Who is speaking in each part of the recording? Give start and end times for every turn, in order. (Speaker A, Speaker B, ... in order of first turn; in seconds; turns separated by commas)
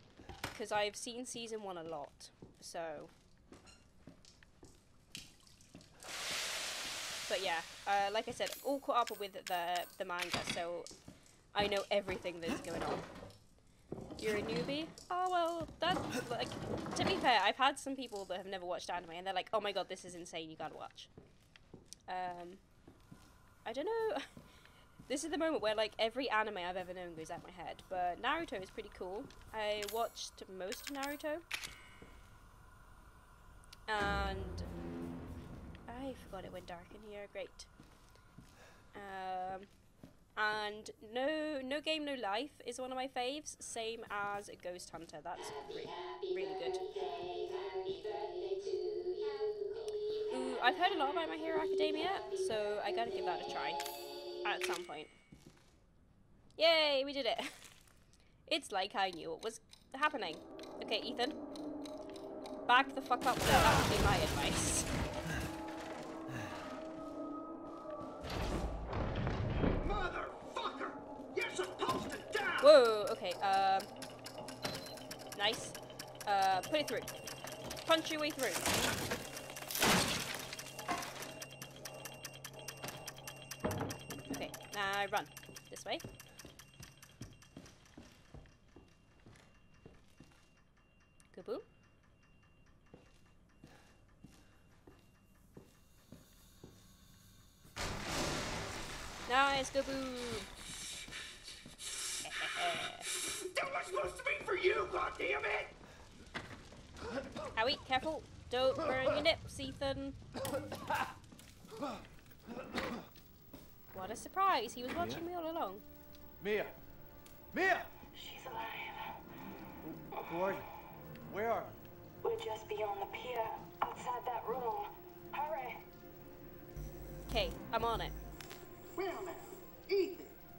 Speaker A: 0.5-3.1, Speaker A: 7.3-10.9, Speaker A: 11.5-13.1, Speaker A: 14.2-21.1, Speaker A: 22.1-22.6, Speaker A: 23.6-24.3, Speaker A: 25.1-31.4, Speaker A: 33.9-34.7, Speaker A: 35.9-37.7, Speaker A: 38.9-39.7, Speaker A: 40.4-46.9, Speaker A: 50.3-53.8, Speaker A: 54.4-55.1, Speaker A: 56.6-57.6, Speaker A: 58.5-61.4, Speaker A: 62.7-64.9, Speaker B: 69.7-72.7, Speaker A: 72.6-73.9, Speaker A: 75.3-77.2, Speaker A: 77.8-78.9, Speaker A: 84.3-86.0, Speaker A: 91.3-91.6, Speaker A: 99.3-100.5, Speaker A: 102.2-103.1, Speaker B: 103.0-105.8, Speaker A: 107.5-110.2, Speaker A: 113.9-115.8, Speaker C: 115.0-115.2, Speaker C: 116.4-116.7, Speaker C: 117.5-117.9, Speaker D: 118.2-118.7, Speaker C: 119.8-120.7, Speaker C: 121.3-121.8, Speaker D: 122.3-124.8, Speaker D: 125.4-125.7, Speaker A: 127.3-128.1, Speaker B: 128.9-130.3